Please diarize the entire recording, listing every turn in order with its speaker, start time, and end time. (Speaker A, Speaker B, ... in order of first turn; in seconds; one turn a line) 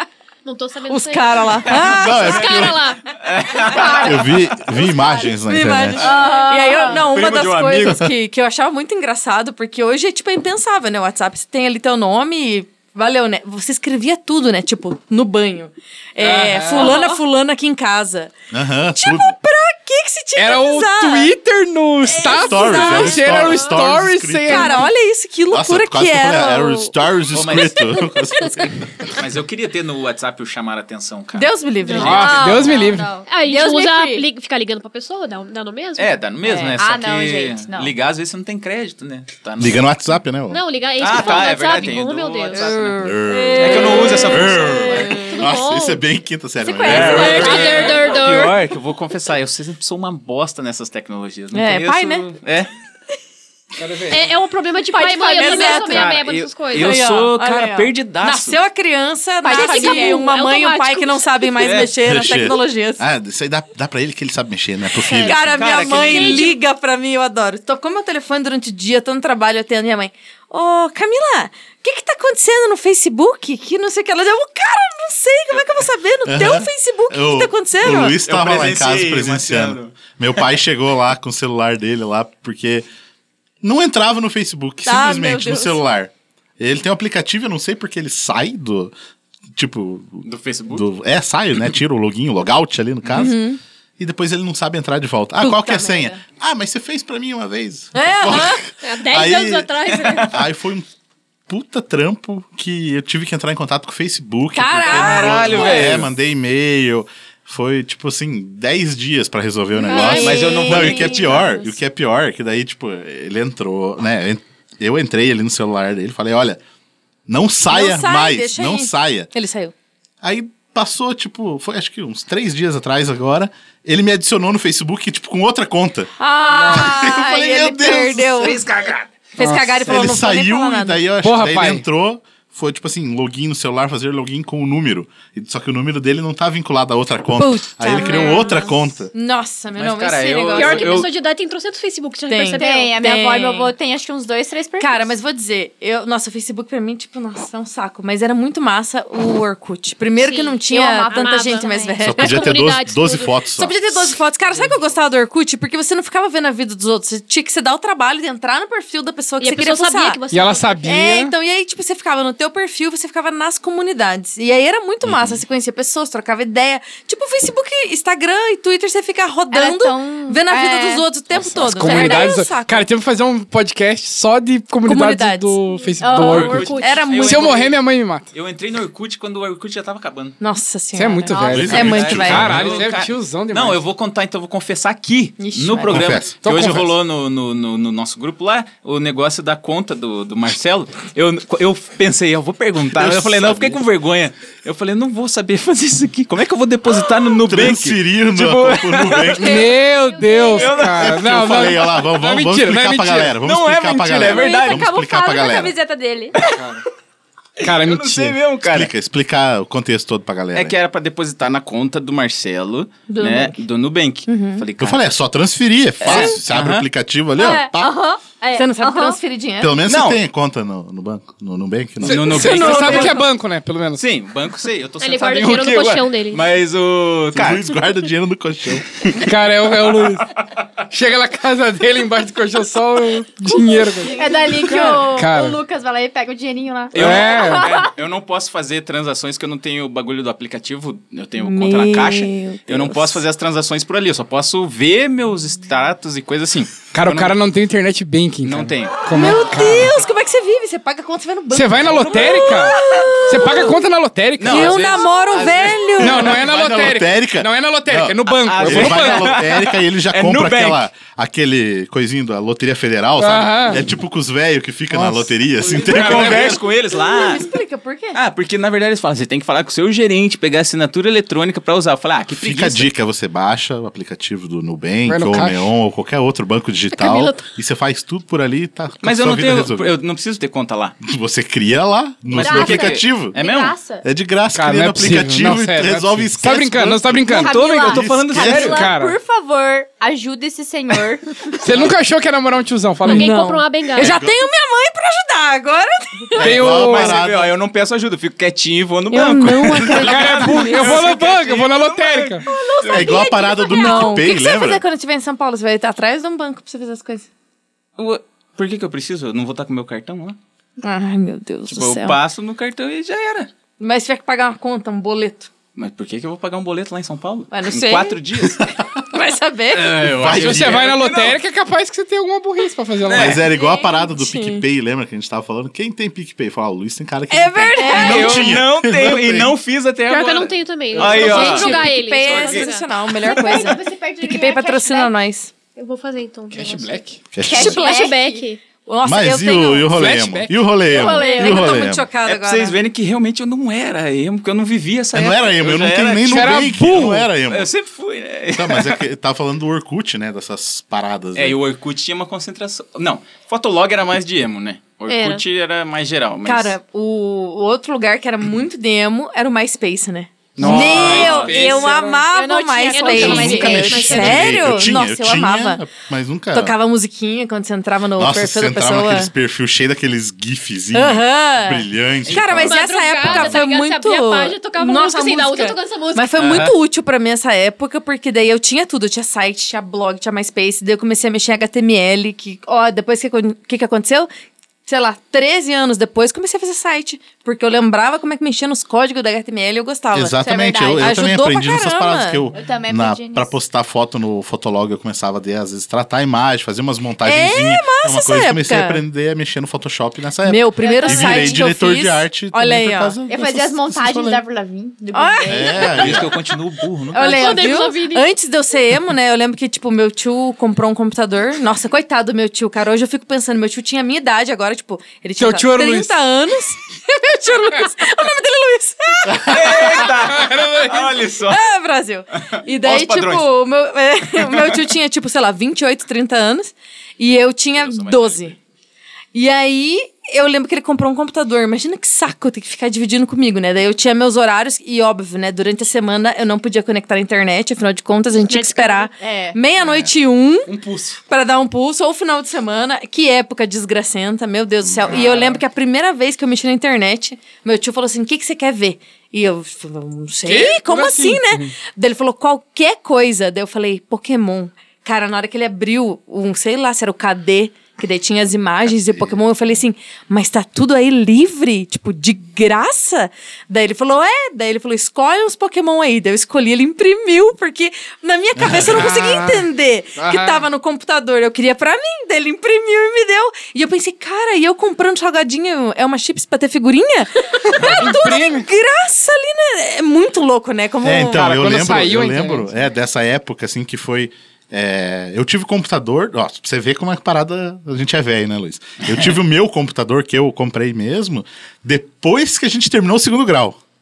Speaker A: 0.4-3.0
Speaker B: 0.9-2.6
Speaker C: 1.6-4.6
Speaker D: 1.8-2.9
Speaker E: 3.7-5.3
Speaker D: 3.9-6.1
Speaker B: 5.4-18.3
Speaker E: 6.0-7.1
Speaker C: 6.9-8.0
Speaker F: 16.2-17.1
Speaker E: 16.8-17.2
Speaker D: 18.5-19.4
Speaker B: 18.9-21.3
Speaker F: 20.4-24.8
Speaker B: 22.0-23.5
Speaker D: 22.1-24.9
Speaker B: 24.4-26.9
Speaker D: 25.5-28.8
Speaker C: 27.3-27.9
Speaker C: 29.0-32.5
Speaker B: 31.3-32.7
Speaker E: 31.9-34.2
Speaker F: 32.0-33.1
Speaker A: 33.2-36.2
Speaker C: 36.0-39.8
Speaker E: 36.5-37.9
Speaker D: 39.6-40.6
Speaker A: 40.5-42.7
Speaker C: 41.0-45.0
Speaker B: 42.5-45.3
Speaker D: 43.0-47.9
Speaker E: 43.2-45.3
Speaker A: 45.3-46.0
Speaker E: 46.7-48.2
Speaker C: 46.8-52.7
Speaker A: 46.9-48.6
Speaker B: 51.5-52.4
Speaker F: 53.8-54.2
Speaker A: 54.1-57.0
Speaker B: 55.0-56.1
Speaker E: 55.3-55.9
Speaker C: 55.4-58.6
Speaker B: 56.7-63.0
Speaker E: 59.4-60.4
Speaker A: 59.5-61.3
Speaker C: 61.6-62.0
Speaker D: 62.0-65.9
Speaker A: 65.0-66.6
Speaker B: 65.1-78.2
Speaker C: 65.4-66.5
Speaker D: 76.2-82.8
Speaker C: 78.2-80.5
Speaker D: 83.6-88.9
Speaker B: 84.8-85.8
Speaker D: 89.5-93.4
Speaker C: 90.2-90.9
Speaker B: 93.1-93.6
Speaker D: 94.0-100.8
Speaker B: 95.4-96.2
Speaker B: 97.9-98.6
Speaker A: 98.2-100.4
Speaker C: 99.9-100.3
Speaker D: 101.5-116.6
Speaker B: 104.5-105.9
Speaker C: 104.9-106.1
Speaker B: 109.8-111.7
Speaker A: 109.8-110.7
Speaker C: 109.9-111.5
Speaker D: 117.3-119.3
Speaker B: 117.7-119.7
Speaker D: 120.2-128.7
Speaker B: 126.2-128.6
Speaker F: 126.5-126.9
Speaker C: 128.4-129.1
Speaker B: 129.3-131.0
Speaker F: 129.4-129.8
Speaker D: 129.8-139.1
Speaker F: 131.2-131.8
Speaker B: 137.3-141.1
Speaker A: 137.9-138.6
Speaker C: 139.7-141.1
Speaker A: 140.5-143.0
Speaker B: 142.3-143.7
Speaker E: 142.5-145.1
Speaker B: 144.8-152.5
Speaker A: 150.2-153.4
Speaker E: 150.7-152.0
Speaker D: 152.0-154.2
Speaker B: 153.5-160.2
Speaker A: 159.4-161.2
Speaker F: 160.3-161.3
Speaker B: 160.9-172.9
Speaker D: 165.0-165.4
Speaker E: 169.5-171.1
Speaker F: 171.4-178.2
Speaker E: 171.8-172.3
Speaker B: 174.8-175.6
Speaker E: 176.0-176.8
Speaker C: 176.1-177.8
Speaker A: 176.4-177.0
Speaker B: 176.7-177.6
Speaker C: 178.3-180.4
Speaker B: 180.4-182.5
Speaker F: 180.9-183.8
Speaker D: 181.5-182.8
Speaker C: 181.7-199.6
Speaker B: 185.4-186.1
Speaker D: 185.9-186.3
Speaker F: 186.4-186.9
Speaker D: 192.9-193.8
Speaker D: 197.4-199.6
Speaker F: 199.4-203.3
Speaker E: 199.4-200.9
Speaker C: 200.5-201.5
Speaker D: 201.0-205.8
Speaker C: 203.4-204.9
Speaker E: 204.2-206.3
Speaker F: 206.5-206.8
Speaker C: 207.6-208.9
Speaker F: 207.6-208.4
Speaker D: 208.7-210.7
Speaker C: 210.5-215.0
Speaker B: 213.1-213.6
Speaker B: 214.3-214.6
Speaker D: 214.8-217.9
Speaker C: 216.0-216.9
Speaker E: 217.4-219.2
Speaker B: 218.5-219.8
Speaker D: 219.6-222.8
Speaker C: 219.9-220.2
Speaker F: 222.0-224.0
Speaker C: 222.0-223.2
Speaker B: 222.4-223.2
Speaker C: 224.0-227.8
Speaker A: 225.0-226.4
Speaker D: 227.3-228.9
Speaker F: 229.1-230.2
Speaker F: 230.9-235.6
Speaker E: 233.7-237.9
Speaker B: 234.1-235.0
Speaker C: 236.9-247.3
Speaker F: 236.9-237.7
Speaker B: 241.4-243.2
Speaker F: 246.9-249.9
Speaker C: 248.4-249.0
Speaker B: 249.1-253.8
Speaker F: 251.5-254.9
Speaker C: 254.4-256.0
Speaker B: 254.4-256.4
Speaker F: 256.0-259.3
Speaker D: 256.0-266.6
Speaker C: 258.4-260.8
Speaker F: 263.2-263.8
Speaker F: 264.9-265.3
Speaker C: 265.6-267.5
Speaker F: 265.9-266.6
Speaker B: 266.9-268.2
Speaker C: 268.1-272.9
Speaker D: 272.3-279.9
Speaker F: 275.1-275.7
Speaker A: 276.9-277.5
Speaker C: 279.0-281.0
Speaker D: 281.0-283.4
Speaker C: 282.3-283.8
Speaker E: 282.3-284.1
Speaker D: 284.0-288.8
Speaker F: 284.5-287.9
Speaker E: 287.3-291.6
Speaker C: 287.4-288.9
Speaker F: 288.4-289.1
Speaker F: 291.6-293.4
Speaker A: 293.0-294.2
Speaker B: 293.0-296.6
Speaker D: 293.9-294.4
Speaker D: 296.3-297.5
Speaker F: 296.4-297.2
Speaker C: 296.7-303.2
Speaker B: 299.1-301.1
Speaker F: 299.9-302.4
Speaker B: 302.5-307.3
Speaker D: 302.9-304.8
Speaker C: 308.0-310.4
Speaker B: 310.8-312.2
Speaker C: 311.7-313.5
Speaker B: 313.8-315.5
Speaker C: 315.8-318.6
Speaker B: 317.5-320.0
Speaker C: 319.7-321.4
Speaker D: 320.1-320.9
Speaker F: 320.3-323.3
Speaker C: 323.1-323.5
Speaker D: 323.1-329.5
Speaker E: 323.6-324.0
Speaker B: 324.0-324.6
Speaker B: 327.3-328.6
Speaker C: 327.8-332.7
Speaker A: 330.1-332.9
Speaker B: 331.0-335.5
Speaker E: 333.2-335.2
Speaker A: 335.8-337.0
Speaker F: 336.5-337.2
Speaker D: 337.3-337.9
Speaker E: 337.4-338.5
Speaker A: 337.6-338.6
Speaker B: 338.8-339.9
Speaker D: 339.0-342.1
Speaker F: 339.9-340.6
Speaker E: 340.9-341.8
Speaker B: 340.9-342.8
Speaker C: 342.2-346.6
Speaker D: 345.1-347.7
Speaker F: 346.3-347.3
Speaker C: 347.5-349.0
Speaker D: 348.5-351.6
Speaker C: 351.3-356.7
Speaker A: 355.1-355.4
Speaker B: 356.4-365.8
Speaker F: 360.6-361.9
Speaker C: 360.6-361.6
Speaker E: 361.2-364.1
Speaker A: 362.9-364.7
Speaker D: 363.2-366.7
Speaker B: 366.5-369.3
Speaker D: 368.2-373.6
Speaker B: 370.9-384.3
Speaker C: 372.2-372.7
Speaker A: 372.6-376.3
Speaker C: 376.4-376.8
Speaker B: 384.9-392.5
Speaker D: 390.1-404.4
Speaker E: 390.4-391.2
Speaker E: 392.5-393.6
Speaker B: 397.2-399.0
Speaker B: 400.4-403.2
Speaker E: 400.8-401.6
Speaker E: 403.2-406.1
Speaker B: 405.1-406.2
Speaker D: 405.5-406.3
Speaker C: 405.9-407.7
Speaker A: 407.1-408.3
Speaker B: 407.1-420.1
Speaker F: 415.4-416.2
Speaker C: 419.3-421.6
Speaker F: 420.1-421.1
Speaker B: 421.4-428.5
Speaker C: 422.7-423.5
Speaker C: 424.5-424.8
Speaker C: 427.7-428.6
Speaker B: 429.3-440.7
Speaker A: 438.5-439.1
Speaker E: 439.1-439.6
Speaker F: 440.6-441.2
Speaker B: 441.3-481.5
Speaker D: 444.8-445.3
Speaker F: 450.4-451.7
Speaker D: 458.9-459.4
Speaker D: 468.6-468.9
Speaker F: 468.9-469.6
Speaker F: 470.2-470.6
Speaker F: 477.8-478.6
Speaker D: 481.0-493.8
Speaker F: 481.3-482.7